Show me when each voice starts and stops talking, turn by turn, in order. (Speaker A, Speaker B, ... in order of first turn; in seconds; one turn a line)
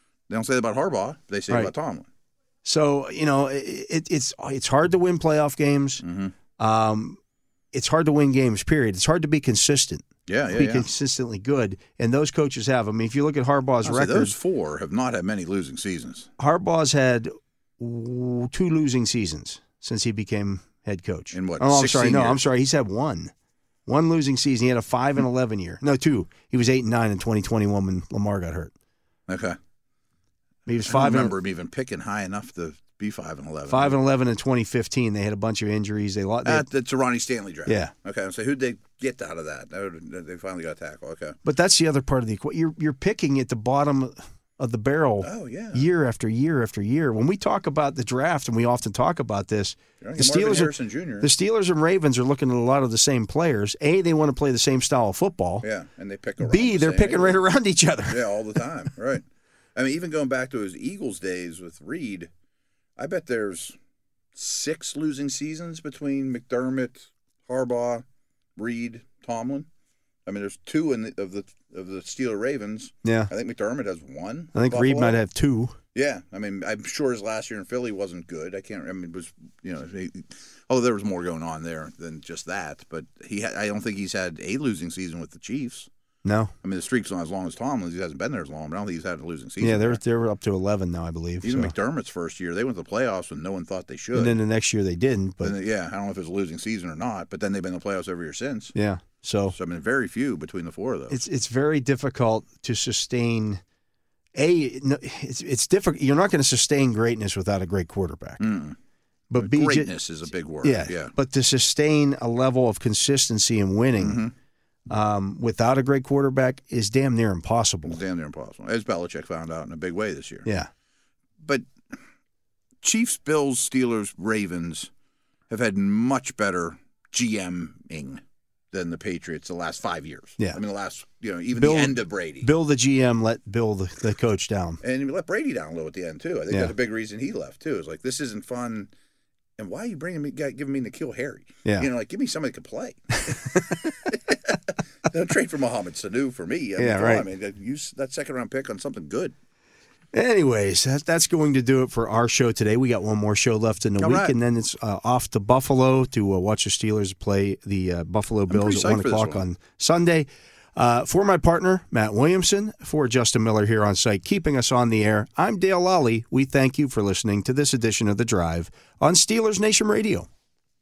Speaker A: 0.3-2.1
Speaker B: 2.6-6.0
Speaker A: 6.0-6.3
Speaker B: 6.6-7.2
Speaker B: 7.7-14.3
Speaker A: 10.3-10.9
Speaker A: 13.8-16.3
Speaker B: 16.4-23.3
Speaker A: 21.3-22.4
Speaker B: 23.9-28.7
Speaker A: 29.3-29.6
Speaker B: 30.7-31.3
Speaker A: 30.9-34.0
Speaker B: 33.7-36.7
Speaker A: 36.5-41.4
Speaker B: 37.7-37.9
Speaker B: 41.5-55.6
Speaker A: 45.2-45.9
Speaker A: 50.0-51.3
Speaker A: 55.6-57.4
Speaker B: 56.4-58.4
Speaker A: 58.1-59.2
Speaker A: 59.8-62.3
Speaker A: 63.0-63.8
Speaker A: 64.3-68.0
Speaker A: 68.6-69.7
Speaker A: 70.3-75.2
Speaker B: 73.0-73.3
Speaker B: 74.5-75.8
Speaker A: 75.9-85.9
Speaker B: 86.2-86.5
Speaker A: 86.6-90.0
Speaker B: 89.6-91.7
Speaker A: 91.4-94.4
Speaker B: 94.2-95.5
Speaker A: 95.4-98.7
Speaker B: 98.8-99.5
Speaker A: 99.5-101.2
Speaker B: 101.1-103.6
Speaker B: 104.4-108.4
Speaker A: 108.4-108.8
Speaker B: 109.3-109.9
Speaker A: 109.3-111.1
Speaker B: 110.6-114.3
Speaker A: 114.0-114.3
Speaker B: 114.9-118.0
Speaker A: 117.9-120.5
Speaker A: 121.4-121.7
Speaker A: 122.8-124.9
Speaker A: 125.5-132.5
Speaker B: 131.6-134.8
Speaker A: 134.8-138.9
Speaker A: 139.6-149.3
Speaker B: 143.3-143.9
Speaker B: 146.8-147.3
Speaker B: 150.1-170.3
Speaker A: 154.0-154.3
Speaker A: 158.5-159.4